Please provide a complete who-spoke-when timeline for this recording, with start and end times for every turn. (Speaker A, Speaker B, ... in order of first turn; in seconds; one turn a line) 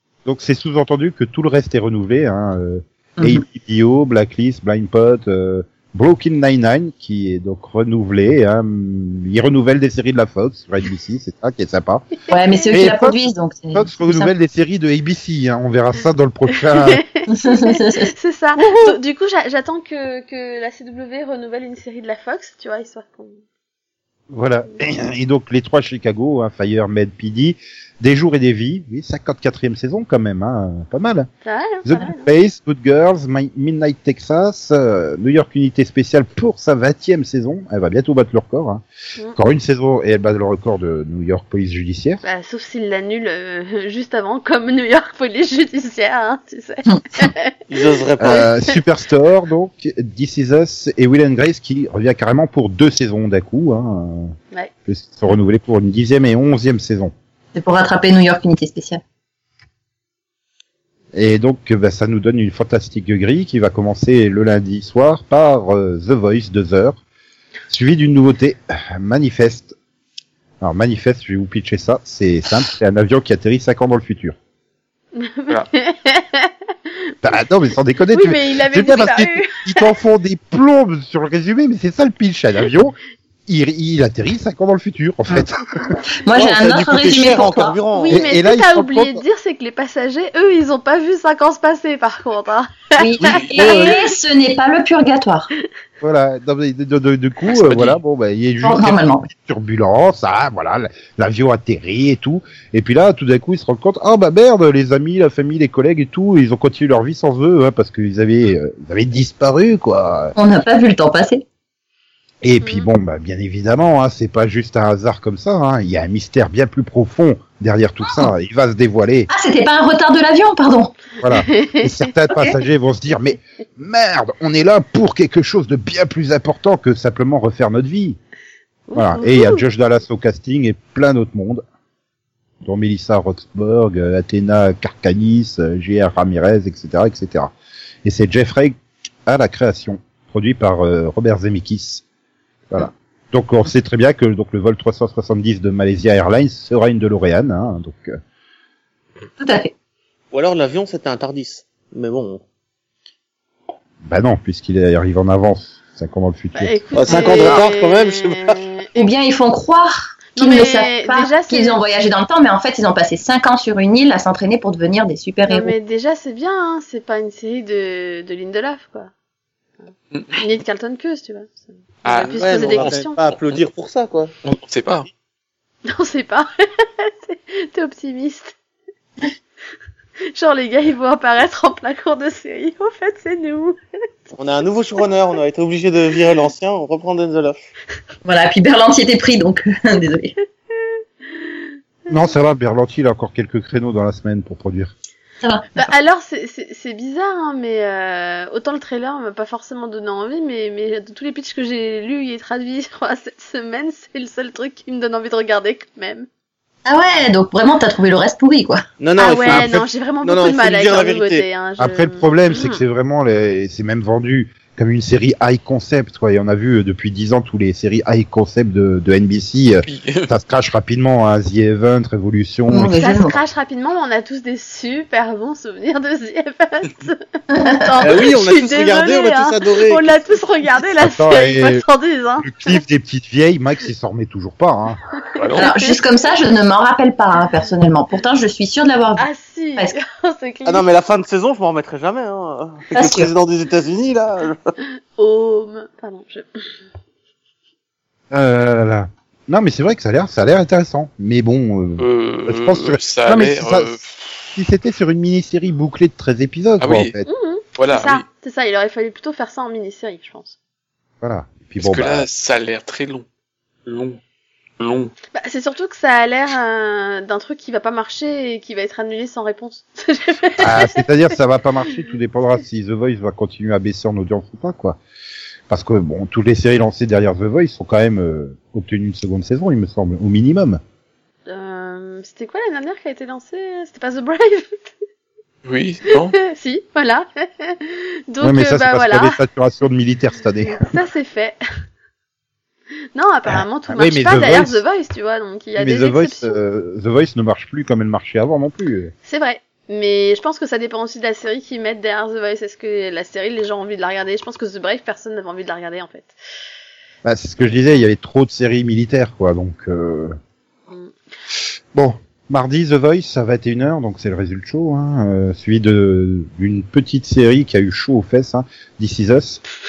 Speaker A: 0.2-12.1
Speaker B: 12.3-12.7
Speaker C: 12.3-14.3
Speaker A: 12.7-13.2
Speaker A: 13.7-17.0
Speaker B: 16.7-23.4
Speaker C: 17.3-19.0
Speaker A: 24.3-31.3
Speaker B: 31.4-32.3
Speaker A: 31.8-38.8
Speaker A: 39.4-42.2
Speaker B: 42.2-48.7
Speaker C: 46.9-47.3
Speaker D: 47.7-48.5
Speaker A: 48.2-54.3
Speaker A: 54.9-57.1
Speaker C: 57.5-59.0
Speaker A: 61.1-67.0
Speaker A: 67.7-69.7
Speaker A: 70.6-74.3
Speaker B: 75.1-77.1
Speaker A: 77.2-83.0
Speaker B: 78.1-79.9
Speaker A: 83.5-85.9
Speaker C: 86.2-87.8
Speaker D: 86.3-88.2
Speaker B: 87.9-94.0
Speaker A: 88.1-89.2
Speaker C: 93.0-95.5
Speaker A: 93.2-93.9
Speaker E: 93.3-93.6
Speaker A: 96.0-110.3
Speaker E: 97.5-98.0
Speaker C: 98.6-99.3
Speaker C: 110.3-111.4
Speaker A: 112.4-119.3
Speaker B: 112.6-112.9
Speaker C: 119.3-121.0
Speaker A: 121.2-128.2
Speaker B: 121.2-122.1
Speaker B: 128.9-129.6
Speaker A: 128.9-131.6
Speaker A: 132.6-137.5
Speaker A: 138.0-142.0
Speaker A: 142.7-148.2
Speaker C: 149.4-149.7
Speaker D: 150.3-152.4
Speaker A: 154.0-157.6
Speaker B: 156.5-158.9
Speaker D: 157.0-158.6
Speaker C: 158.9-165.7
Speaker B: 160.3-161.8
Speaker B: 165.4-169.1
Speaker E: 170.1-170.4
Speaker B: 170.3-173.3
Speaker E: 172.0-173.4
Speaker D: 172.1-174.3
Speaker E: 174.4-175.1
Speaker B: 175.8-178.5
Speaker B: 180.3-183.8
Speaker D: 184.4-187.7
Speaker C: 188.2-190.3
Speaker A: 192.1-194.9
Speaker C: 195.4-195.9
Speaker B: 195.7-206.3
Speaker C: 206.8-208.8
Speaker D: 209.0-211.4
Speaker B: 209.2-212.8
Speaker A: 211.8-222.9
Speaker E: 219.8-220.3
Speaker C: 222.7-223.4
Speaker B: 223.0-232.8
Speaker C: 227.5-227.9
Speaker D: 228.0-230.3
Speaker A: 231.0-231.8
Speaker A: 232.4-235.0
Speaker E: 235.4-235.7
Speaker C: 235.5-240.0
Speaker B: 235.6-236.0
Speaker B: 239.2-240.9
Speaker D: 240.7-244.6
Speaker C: 242.9-243.3
Speaker B: 245.2-246.5
Speaker A: 248.3-254.0
Speaker E: 252.0-254.1
Speaker A: 254.5-257.2
Speaker E: 256.8-257.1
Speaker B: 257.2-260.6
Speaker E: 257.8-258.2
Speaker A: 261.2-262.3
Speaker E: 261.8-263.2
Speaker E: 263.9-264.2
Speaker E: 264.8-265.1
Speaker B: 265.3-271.0
Speaker A: 270.6-275.0
Speaker A: 275.7-280.8
Speaker B: 281.5-284.8
Speaker E: 285.6-286.4
Speaker B: 286.4-289.4
Speaker A: 288.4-290.8
Speaker B: 290.6-291.6
Speaker B: 293.1-296.6
Speaker A: 293.5-294.8
Speaker A: 295.8-299.1
Speaker B: 299.2-306.4
Speaker A: 307.2-310.4
Speaker A: 311.9-319.6